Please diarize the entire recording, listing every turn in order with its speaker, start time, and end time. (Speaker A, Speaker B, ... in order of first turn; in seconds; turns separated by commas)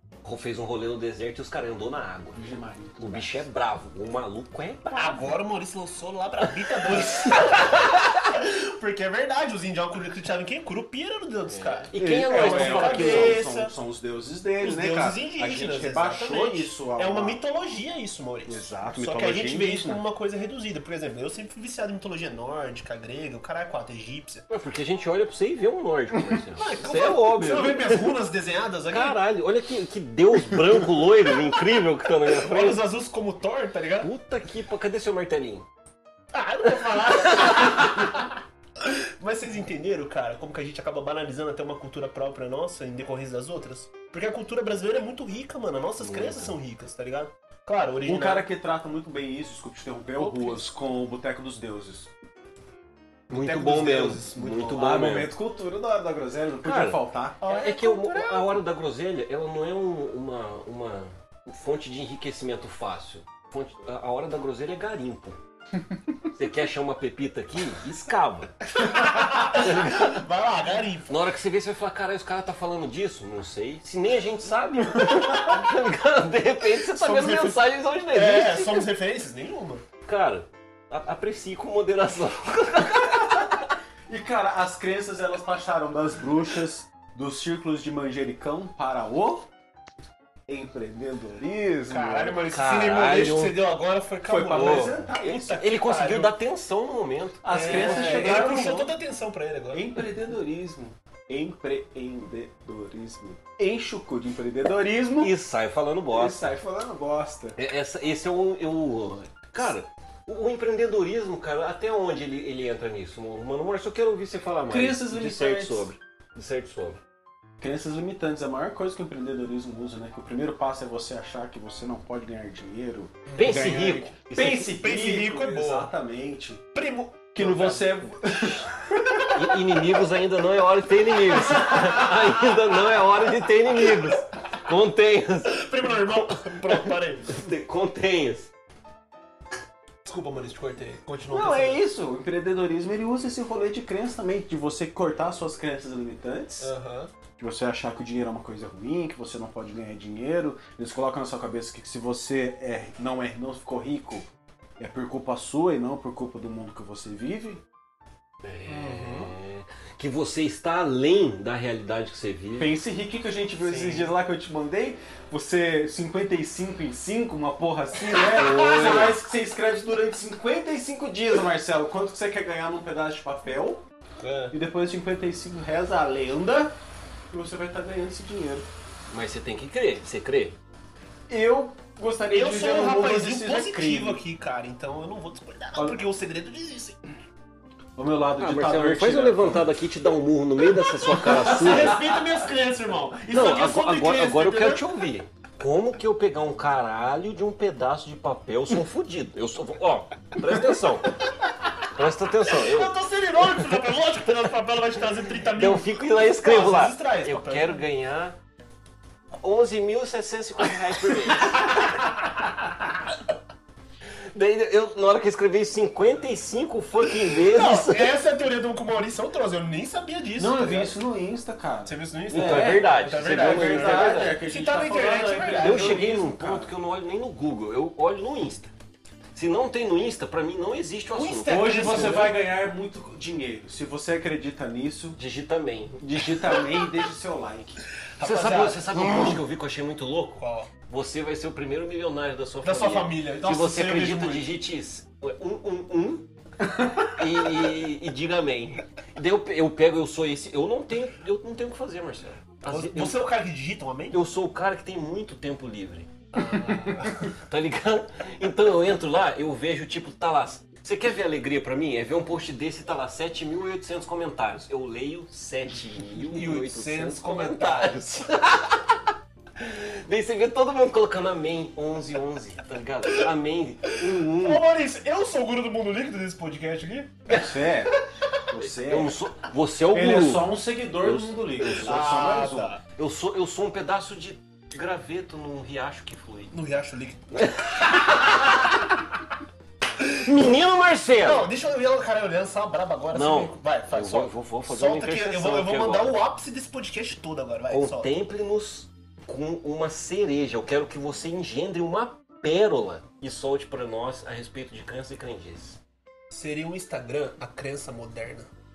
Speaker A: 0.2-2.5, Speaker B: 2.3-3.4, Speaker A: 3.0-5.1, Speaker C: 4.9-13.7, Speaker A: 6.9-7.7, Speaker A: 11.4-13.4, Speaker B: 11.9-17.4, Speaker C: 14.6-24.4, Speaker B: 18.5-20.0, Speaker A: 24.5-28.2, Speaker C: 26.6-29.2, Speaker B: 27.4-27.8, Speaker A: 28.9-32.8, Speaker C: 32.2-34.1, Speaker A: 34.0-35.6, Speaker C: 36.3-48.5, Speaker A: 37.1-38.3, Speaker A: 46.0-46.5, Speaker B: 48.0-52.1, Speaker C: 50.2-50.7, Speaker C: 53.3-55.1, Speaker A: 53.3-55.3, Speaker B: 54.7-57.4, Speaker A: 56.6-65.4, Speaker C: 57.4-58.6, Speaker A: 66.3-68.6, Speaker C: 68.7-71.1, Speaker A: 69.4-70.3, Speaker A: 71.1-78.8, Speaker B: 75.0-75.5, Speaker C: 76.8-79.8, Speaker A: 80.0-83.7, Speaker B: 84.1-89.5, Speaker B: 90.5-92.4, Speaker C: 91.8-96.3, Speaker A: 92.5-93.6, Speaker B: 94.2-95.4, Speaker A: 94.5-98.7, Speaker B: 97.4-98.9, Speaker C: 97.5-99.9, Speaker B: 99.7-105.3, Speaker A: 105.2-106.5, Speaker B: 106.1-107.6, Speaker A: 107.5-117.0, Speaker B: 114.7-115.9, Speaker B: 117.6-126.6, Speaker C: 123.3-124.0, Speaker A: 123.4-124.8, Speaker C: 124.7-125.9, Speaker C: 126.7-127.9, Speaker B: 127.3-129.8, Speaker A: 129.3-138.5, Speaker B: 131.5-132.2, Speaker C: 135.4-137.3, Speaker C: 140.0-141.8, Speaker B: 141.3-146.7, Speaker C: 146.6-147.1, Speaker B: 147.4-154.3, Speaker B: 154.8-157.6, Speaker A: 158.4-162.8, Speaker C: 158.7-159.3, Speaker B: 162.6-173.8, Speaker C: 163.6-164.1, Speaker C: 168.0-168.9, Speaker A: 168.3-169.2, Speaker C: 174.2-174.5, Speaker B: 174.5-176.7, Speaker B: 177.3-178.7, Speaker A: 179.1-180.5, Speaker B: 181.3-184.2, Speaker C: 182.3-187.0, Speaker B: 185.7-186.0, Speaker B: 187.9-189.8, Speaker A: 188.4-192.0, Speaker C: 191.1-194.8, Speaker B: 191.2-192.3, Speaker A: 193.3-201.2, Speaker C: 201.3-201.7, Speaker A: 201.9-203.8, Speaker C: 202.4-207.8, Speaker A: 205.5-208.3, Speaker A: 209.4-212.1, Speaker C: 212.1-212.4, Speaker A: 214.3-218.2, Speaker C: 217.3-220.9, Speaker B: 220.4-226.7, Speaker C: 221.8-226.0, Speaker A: 222.3-224.4, Speaker A: 225.6-228.7, Speaker A: 229.3-232.3, Speaker C: 231.1-232.4, Speaker B: 231.4-235.2, Speaker A: 235.2-236.0, Speaker B: 236.0-237.8, Speaker C: 238.1-239.4, Speaker A: 238.2-246.2, Speaker C: 240.4-240.7, Speaker C: 242.6-244.5, Speaker A: 247.0-253.3, Speaker C: 252.7-254.2, Speaker A: 254.1-274.6, Speaker C: 256.3-257.3, Speaker C: 266.3-268.0, Speaker C: 274.3-277.4, Speaker A: 277.3-277.6, Speaker B: 277.3-279.2, Speaker A: 278.6-282.1, Speaker B: 279.9-282.7, Speaker C: 281.8-282.8, Speaker A: 282.9-286.5, Speaker C: 286.5-288.0, Speaker A: 287.4-289.1, Speaker A: 290.1-291.5, Speaker C: 291.2-298.1, Speaker A: 293.1-296.2, Speaker A: 297.7-305.8, Speaker C: 306.3-308.5